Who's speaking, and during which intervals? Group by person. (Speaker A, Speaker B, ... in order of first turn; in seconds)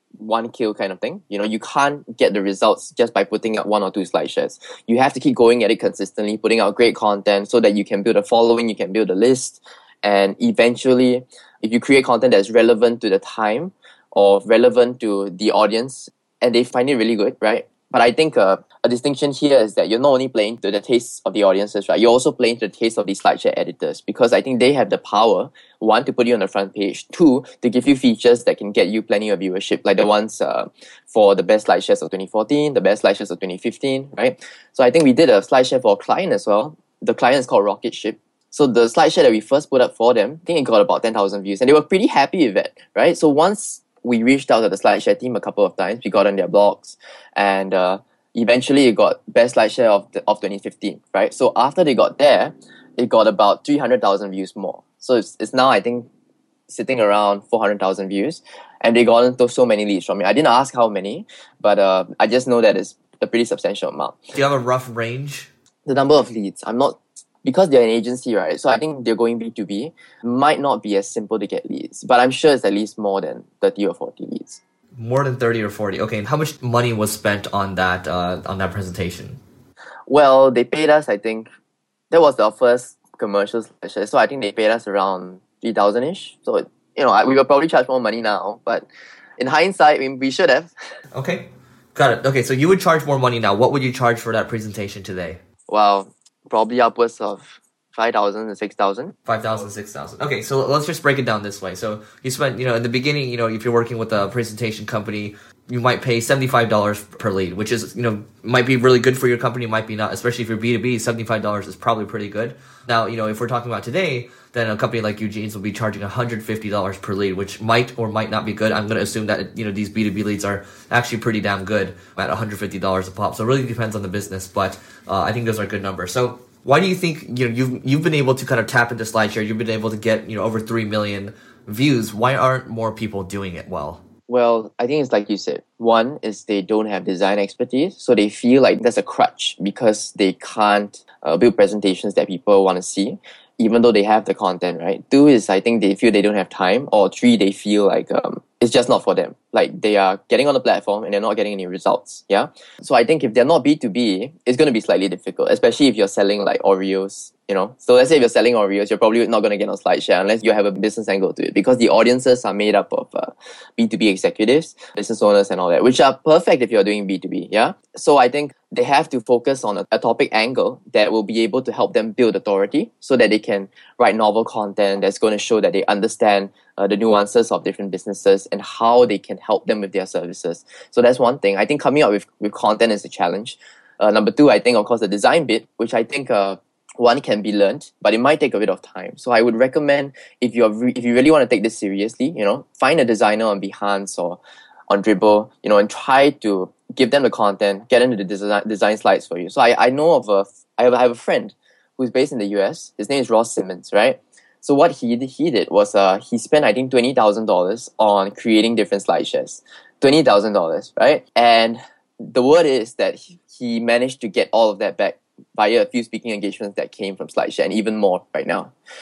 Speaker A: 0.2-56.1, 56.7-64.3, 65.9-74.6, 80.1-81.5, 82.1-88.9, 89.4-90.7, 95.7-99.2, 134.3-194.4, 194.9-218.7
Speaker B: 64.3-65.5, 75.0-79.4, 91.1-95.4, 99.3-134.0